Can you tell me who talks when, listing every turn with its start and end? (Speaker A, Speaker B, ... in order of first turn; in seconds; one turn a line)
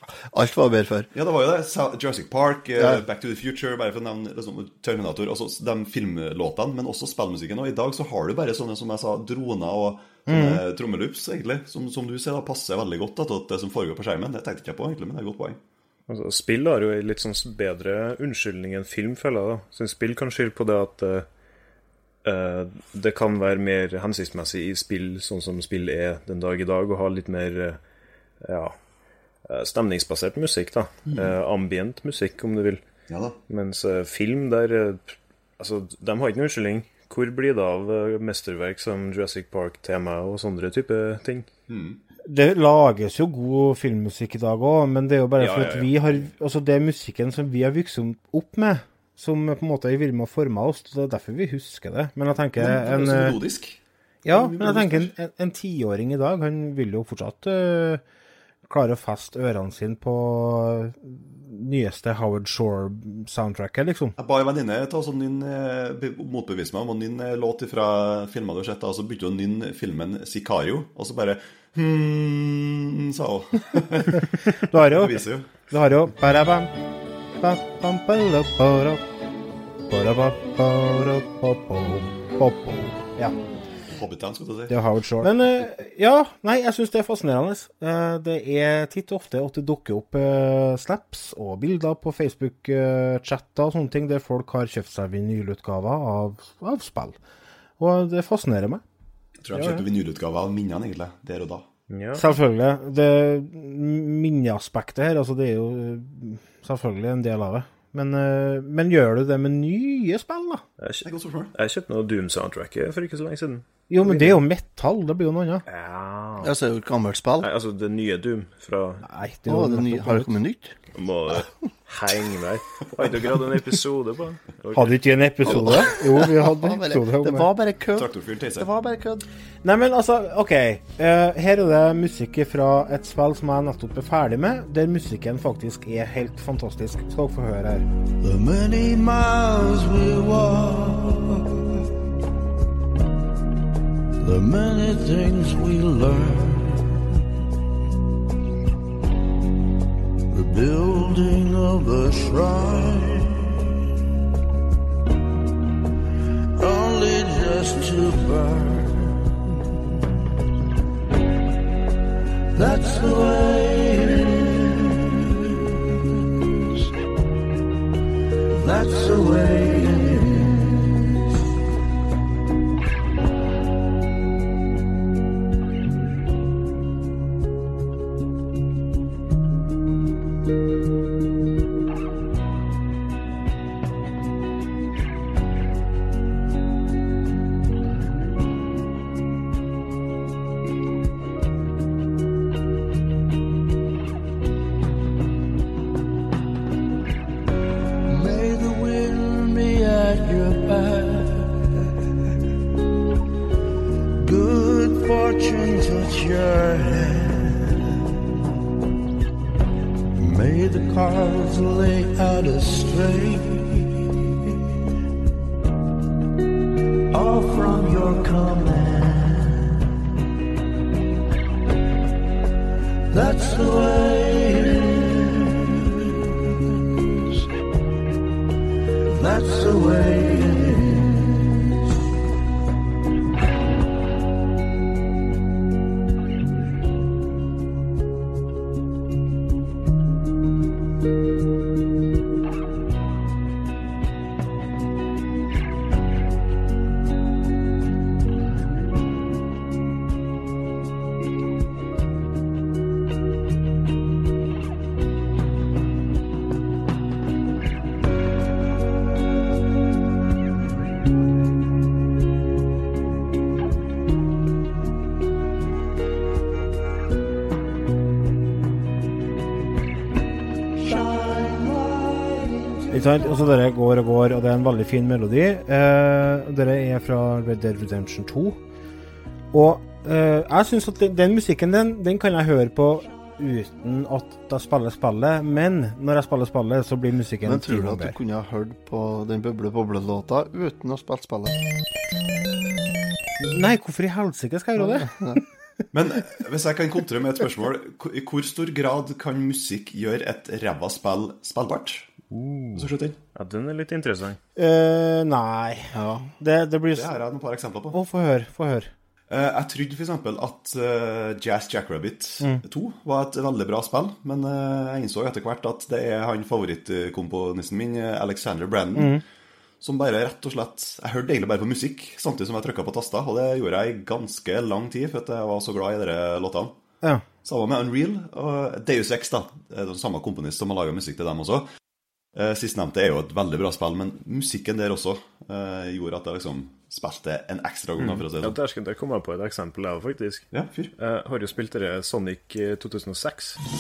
Speaker A: 0.3-1.1
Speaker B: 1.1-15.6
Speaker C: 10.3-10.6
Speaker D: 16.1-21.3
Speaker D: 22.2-27.8
Speaker D: 28.4-28.8
Speaker D: 29.5-32.8
Speaker B: 31.1-31.3
Speaker B: 33.1-33.4
Speaker D: 33.5-41.5
Speaker B: 41.7-42.0
Speaker C: 42.2-53.4
Speaker B: 45.4-46.0
Speaker B: 52.6-55.1
Speaker C: 54.3-58.0
Speaker C: 58.7-64.2
Speaker B: 64.2-75.5
Speaker C: 74.6-75.2
Speaker C: 75.7-76.7
Speaker C: 77.4-79.0
Speaker C: 79.9-83.4
Speaker B: 83.9-84.8
Speaker C: 84.7-97.2
Speaker C: 97.8-98.8
Speaker B: 99.4-101.7
Speaker C: 99.5-99.8
Speaker D: 101.9-102.2
Speaker C: 102.2-110.6
Speaker D: 110.8-114.4
Speaker B: 111.0-111.5
Speaker C: 113.9-115.6
Speaker D: 115.7-116.5
Speaker A: 116.4-117.5
Speaker D: 117.4-119.1
Speaker C: 119.0-120.3
Speaker A: 119.5-120.8
Speaker D: 120.9-125.0
Speaker C: 124.8-127.5
Speaker A: 125.4-129.3
Speaker B: 127.9-128.7
Speaker C: 129.6-137.8
Speaker E: 138.2-141.8
Speaker E: 144.2-147.1
Speaker E: 150.3-153.7
Speaker E: 156.6-159.4
Speaker E: 162.5-166.8
Speaker E: 168.5-171.2
Speaker E: 198.1-201.9
Speaker E: 204.2-208.0
Speaker E: 210.2-214.3
Speaker E: 217.1-219.9
Speaker E: 223.1-227.2
Speaker E: 229.1-231.7
Speaker E: 270.8-273.0
Speaker C: 272.9-278.6
Speaker C: 279.5-288.2
Speaker A: 287.4-291.6
Speaker C: 293.4-295.1
Speaker A: 294.8-295.4
Speaker B: 295.9-302.1
Speaker D: 302.3-304.4
Speaker B: 302.8-303.2
Speaker C: 304.6-307.1
Speaker A: 305.9-306.3
Speaker B: 306.9-308.0
Speaker C: 307.9-308.9
Speaker B: 309.3-319.2
Speaker C: 319.0-319.2
Speaker B: 319.8-326.7
Speaker B: 327.4-331.7
Speaker B: 332.4-338.6
Speaker D: 338.0-340.5
Speaker B: 340.5-340.9
Speaker D: 341.0-343.6